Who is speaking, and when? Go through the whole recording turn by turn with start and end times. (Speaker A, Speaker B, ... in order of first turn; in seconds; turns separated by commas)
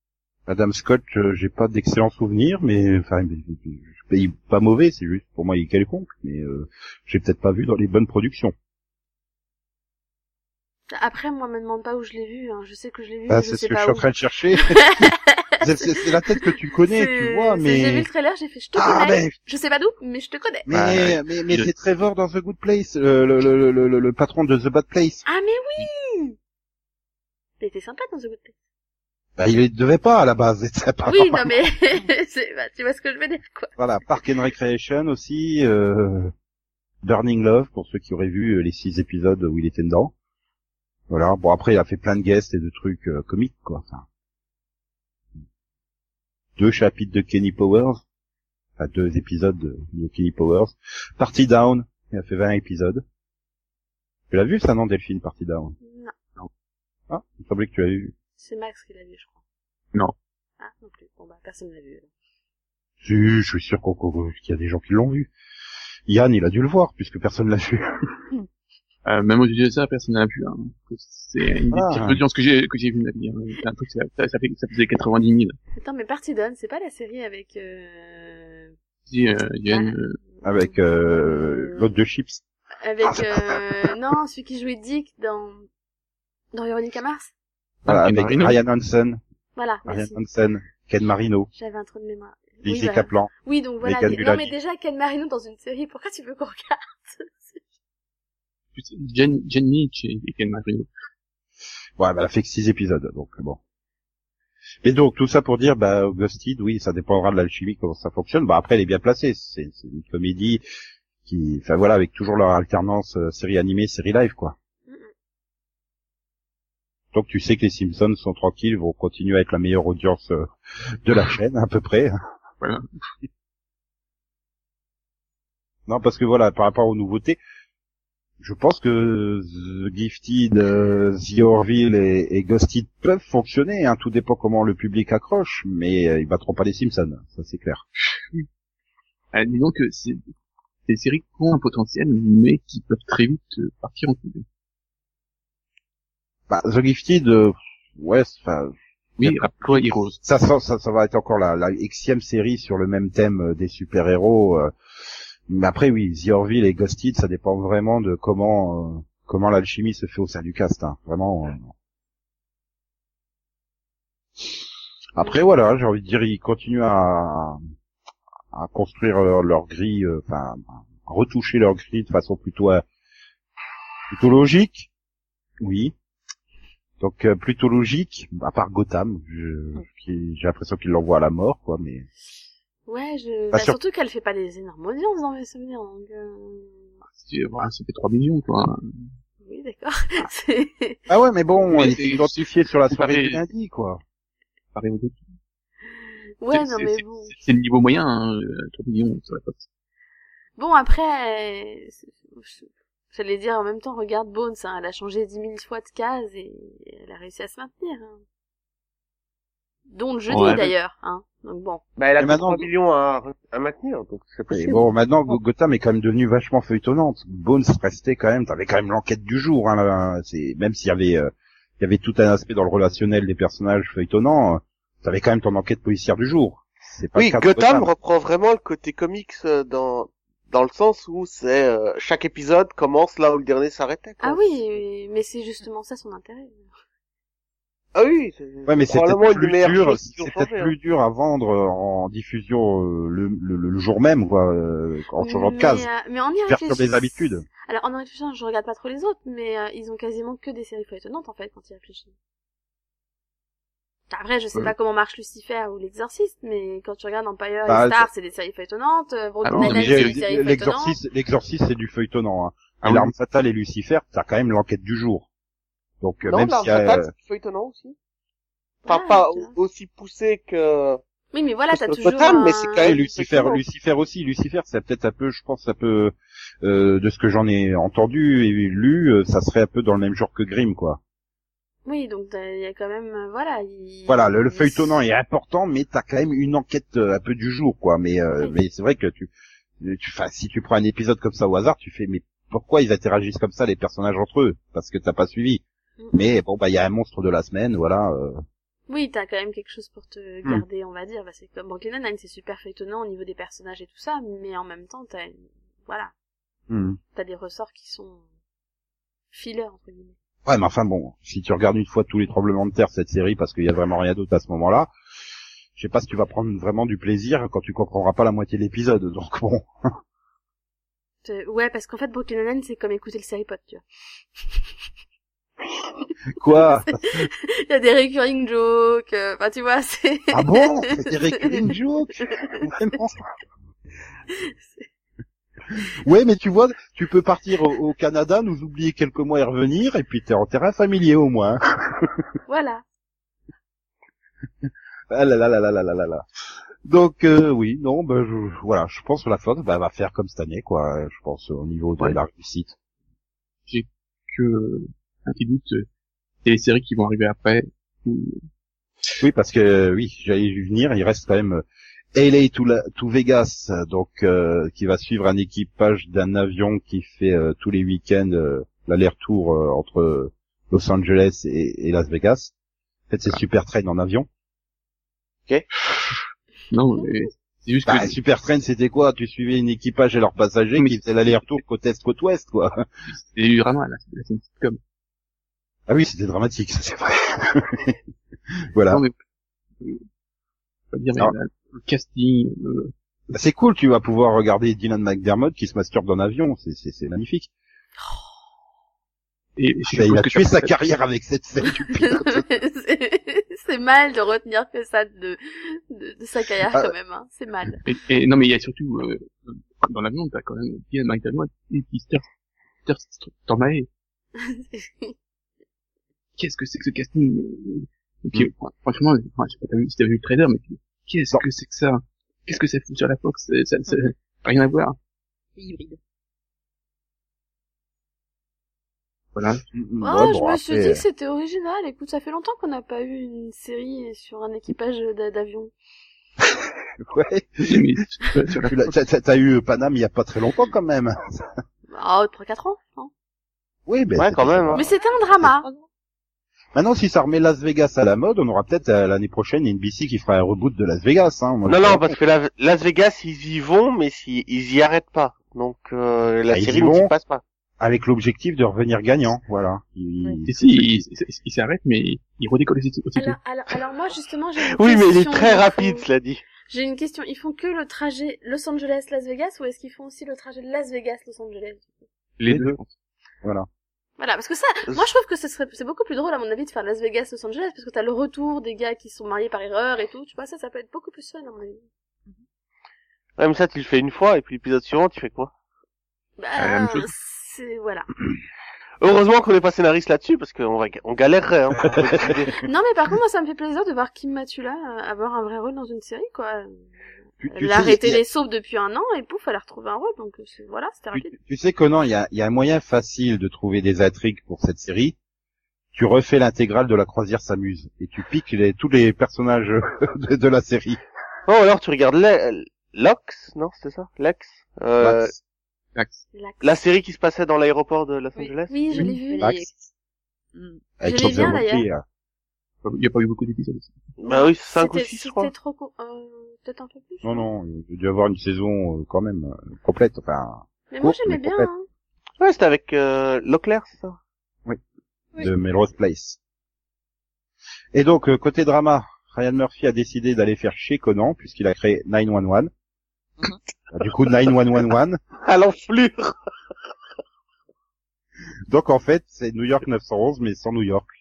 Speaker A: 0.5-8.5, Speaker B: 10.9-14.1, Speaker A: 13.3-14.9, Speaker B: 14.6-15.3, Speaker A: 15.6-18.1, Speaker B: 16.8-20.7, Speaker A: 18.8-19.4, Speaker A: 20.7-25.2, Speaker C: 20.7-21.7, Speaker B: 25.3-26.4, Speaker B: 27.6-28.5, Speaker A: 29.4-31.5, Speaker B: 31.1-33.7, Speaker A: 33.8-36.3, Speaker A: 37.0-40.1, Speaker A: 41.1-44.0, Speaker A: 46.6-48.0, Speaker A: 48.8-53.0, Speaker A: 54.3-55.8, Speaker B: 55.8-56.1, Speaker A: 57.1-58.1, Speaker B: 58.4-59.4, Speaker B: 60.6-62.1, Speaker A: 63.0-65.3, Speaker A: 66.1-67.9, Speaker C: 69.0-75.6, Speaker A: 71.7-72.2, Speaker B: 75.8-78.7, Speaker C: 79.1-80.2, Speaker B: 79.7-81.9, Speaker A: 80.4-82.4, Speaker B: 82.8-85.7, Speaker A: 83.1-83.6, Speaker B: 86.5-87.3, Speaker A: 87.8-89.2, Speaker C: 87.9-88.6, Speaker B: 89.6-90.2, Speaker A: 89.8-91.5, Speaker B: 91.5-97.6, Speaker A: 92.6-94.5, Speaker C: 98.8-100.9, Speaker A: 102.0-103.6, Speaker A: 104.8-110.6, Speaker A: 111.3-114.6, Speaker A: 117.1-120.5, Speaker A: 121.0-122.2, Speaker C: 122.6-122.9, Speaker A: 125.9-127.4, Speaker A: 128.4-137.8, Speaker C: 139.3-140.2, Speaker C: 140.9-144.4, Speaker A: 146.5-154.7, Speaker C: 149.2-150.2, Speaker A: 155.5-161.7, Speaker A: 165.2-167.6, Speaker A: 168.5-172.8, Speaker A: 174.1-174.9, Speaker A: 175.6-175.9, Speaker A: 177.0-182.1, Speaker B: 182.9-186.9, Speaker C: 187.1-189.1, Speaker B: 189.4-191.0, Speaker A: 191.1-194.0, Speaker C: 191.7-193.4, Speaker C: 194.7-195.3, Speaker B: 196.0-197.3, Speaker C: 196.5-199.7, Speaker B: 200.6-208.2, Speaker B: 209.9-211.8, Speaker C: 210.3-210.7, Speaker D: 212.0-214.9, Speaker A: 212.2-212.7, Speaker A: 214.5-227.9, Speaker D: 227.2-234.8, Speaker B: 234.2-236.7, Speaker D: 237.9-240.7, Speaker A: 238.7-245.9, Speaker B: 245.2-252.1, Speaker A: 246.5-247.5, Speaker B: 254.1-261.0, Speaker A: 257.7-258.1, Speaker C: 259.4-260.2, Speaker A: 259.6-265.3, Speaker C: 262.8-263.1, Speaker A: 266.0-267.1, Speaker D: 266.3-268.0, Speaker B: 268.9-269.6, Speaker D: 268.9-271.0, Speaker B: 271.3-272.8, Speaker D: 271.7-273.6, Speaker A: 272.8-281.0, Speaker B: 281.9-285.0, Speaker A: 284.1-295.6, Speaker B: 296.0-296.3, Speaker A: 296.1-298.4, Speaker B: 298.9-306.1, Speaker A: 306.7-307.0, Speaker B: 307.1-308.2, Speaker B: 309.3-310.1, Speaker A: 310.4-314.9, Speaker A: 315.8-319.7, Speaker B: 321.2-323.8, Speaker A: 326.4-327.3, Speaker B: 326.5-333.0, Speaker A: 330.3-333.2, Speaker B: 334.3-334.9, Speaker A: 336.1-342.2, Speaker B: 342.5-342.8, Speaker A: 345.1-346.2, Speaker A: 346.9-352.7, Speaker C: 353.7-355.9, Speaker C: 356.4-358.4, Speaker A: 359.2-361.6, Speaker A: 362.1-372.5, Speaker A: 373.1-374.3, Speaker C: 376.7-378.2, Speaker A: 377.9-382.8, Speaker C: 380.8-381.6, Speaker C: 383.1-384.8, Speaker A: 385.9-388.0, Speaker A: 388.7-389.0, Speaker C: 390.9-392.9, Speaker A: 393.3-397.5, Speaker B: 398.0-398.3, Speaker C: 399.6-400.8, Speaker A: 399.9-402.5, Speaker B: 402.1-407.9, Speaker C: 407.9-412.2, Speaker C: 412.9-413.9, Speaker B: 414.4-415.1, Speaker C: 416.4-425.0, Speaker E: 423.9-424.1, Speaker E: 425.6-426.0, Speaker C: 429.4-429.6, Speaker A: 429.7-431.0, Speaker B: 430.0-435.7, Speaker A: 437.0-437.8, Speaker C: 437.6-438.8, Speaker A: 438.7-441.5, Speaker B: 441.9-443.1, Speaker A: 443.9-444.9, Speaker D: 444.1-444.9, Speaker B: 444.8-445.7, Speaker A: 446.8-452.0, Speaker D: 451.6-457.4, Speaker A: 456.5-457.1, Speaker A: 457.8-461.0, Speaker C: 460.5-463.4, Speaker B: 463.2-466.1, Speaker D: 464.7-466.4, Speaker B: 466.7-471.9, Speaker C: 472.4-472.9, Speaker A: 472.5-472.8, Speaker B: 474.2-481.8, Speaker D: 483.4-485.5, Speaker B: 486.4-488.1, Speaker C: 486.6-487.1, Speaker D: 489.0-492.6, Speaker B: 492.6-496.9, Speaker A: 497.4-498.2, Speaker B: 497.5-501.4, Speaker A: 501.1-505.2, Speaker A: 505.9-511.0, Speaker D: 511.5-515.3, Speaker A: 515.0-515.4, Speaker C: 516.0-516.2, Speaker B: 516.3-516.8, Speaker D: 516.6-518.8, Speaker E: 518.4-519.8, Speaker B: 518.7-519.5, Speaker A: 519.4-519.7, Speaker E: 520.5-520.8, Speaker A: 521.0-522.0, Speaker B: 521.0-521.9, Speaker C: 522.8-524.0, Speaker D: 524.2-525.5, Speaker B: 524.3-527.5, Speaker A: 527.2-531.7, Speaker B: 530.9-531.9, Speaker D: 532.4-534.2, Speaker A: 535.4-536.4, Speaker A: 537.9-542.7, Speaker A: 543.9-545.2, Speaker D: 545.5-546.4, Speaker A: 548.7-551.1